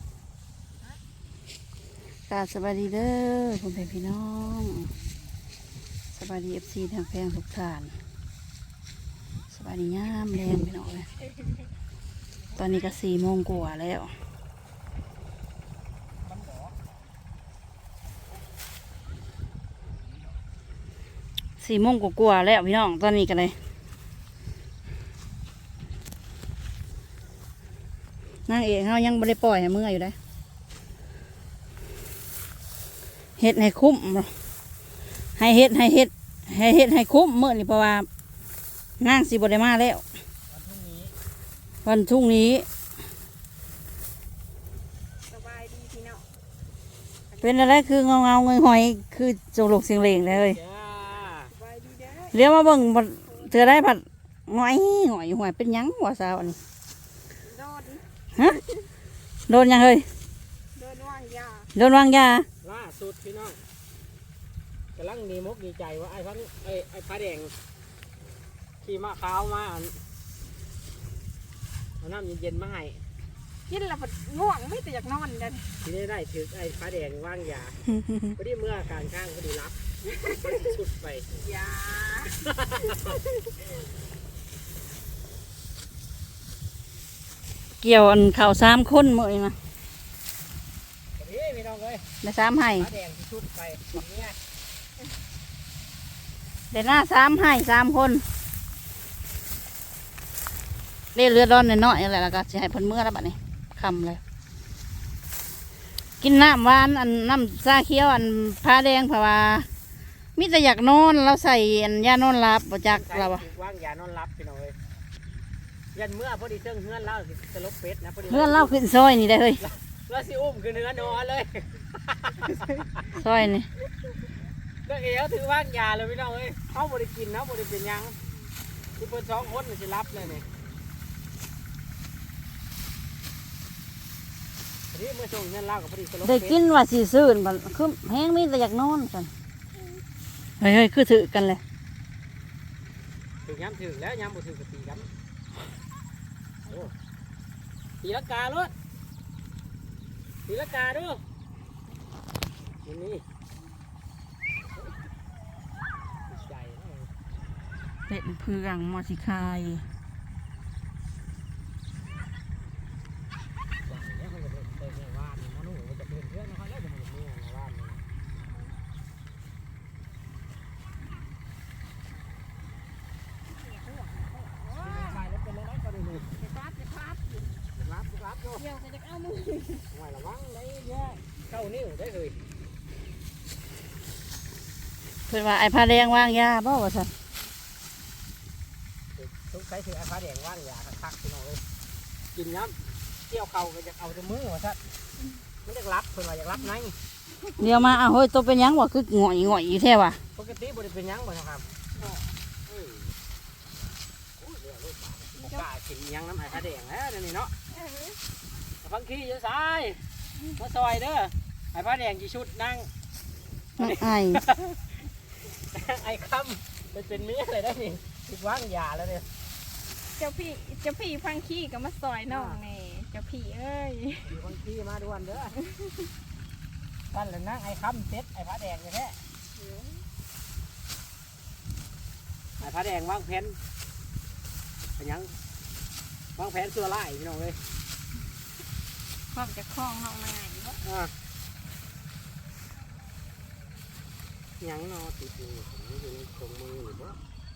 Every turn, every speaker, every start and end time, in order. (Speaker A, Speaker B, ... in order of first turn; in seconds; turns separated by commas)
Speaker A: 2.3-4.9, Speaker A: 6.1-7.9, Speaker A: 9.5-11.1, Speaker A: 12.6-14.1, Speaker B: 16.2-16.8, Speaker A: 21.6-23.6, Speaker A: 28.5-30.1, Speaker A: 33.4-34.3, Speaker A: 35.4-38.1, Speaker A: 39.0-40.0, Speaker B: 40.5-41.1, Speaker A: 41.8-42.6, Speaker C: 45.3-46.2, Speaker C: 47.3-47.8, Speaker A: 47.4-50.6, Speaker B: 50.1-51.5, Speaker C: 51.5-52.4, Speaker A: 52.3-56.6, Speaker C: 53.2-53.7, Speaker C: 57.4-58.8, Speaker A: 59.5-60.1, Speaker C: 60.7-61.7, Speaker A: 61.7-62.5, Speaker B: 62.6-63.6, Speaker B: 65.0-67.5, Speaker B: 68.8-70.0, Speaker B: 72.0-73.0, Speaker C: 73.7-75.8, Speaker B: 75.8-77.8, Speaker B: 78.3-79.8, Speaker B: 80.4-81.3, Speaker C: 81.3-82.4, Speaker B: 82.5-83.0, Speaker A: 87.8-89.6, Speaker B: 91.2-92.0, Speaker A: 92.2-92.9, Speaker B: 92.8-94.4, Speaker A: 96.7-98.2, Speaker A: 101.1-104.2, Speaker A: 106.2-109.7, Speaker A: 110.3-113.5, Speaker B: 112.9-114.8, Speaker B: 115.9-118.7, Speaker A: 118.3-119.6, Speaker B: 119.6-123.0, Speaker A: 123.1-123.7, Speaker B: 124.8-128.2, Speaker B: 129.0-130.4, Speaker B: 134.9-136.6, Speaker A: 136.2-139.3, Speaker A: 140.6-141.6, Speaker B: 143.4-145.1, Speaker B: 146.7-146.9, Speaker B: 148.0-148.7, Speaker B: 150.4-151.2, Speaker B: 152.8-153.2, Speaker B: 156.3-157.1, Speaker A: 158.1-159.8, Speaker B: 163.8-168.0, Speaker C: 173.5-175.2, Speaker B: 174.8-176.3, Speaker C: 176.4-177.5, Speaker B: 177.7-178.6, Speaker C: 178.6-179.9, Speaker B: 179.9-182.4, Speaker A: 185.3-187.1, Speaker C: 186.1-186.4, Speaker B: 189.1-191.6, Speaker B: 192.3-192.8, Speaker B: 193.3-194.8, Speaker B: 195.6-196.9, Speaker A: 197.6-200.2, Speaker B: 200.3-201.7, Speaker C: 201.9-202.3, Speaker B: 202.7-203.1, Speaker B: 204.4-207.5, Speaker C: 205.4-205.6, Speaker C: 207.7-208.2, Speaker B: 208.8-210.0, Speaker B: 210.6-212.9, Speaker A: 213.8-214.4, Speaker B: 213.8-214.9, Speaker B: 215.7-219.3, Speaker C: 220.2-224.4, Speaker B: 222.3-222.6, Speaker B: 224.2-225.6, Speaker B: 227.1-229.2, Speaker C: 229.6-230.0, Speaker B: 232.6-233.6, Speaker B: 235.0-235.4, Speaker B: 236.3-237.6, Speaker A: 239.3-240.2, Speaker B: 240.8-241.1, Speaker B: 244.6-247.2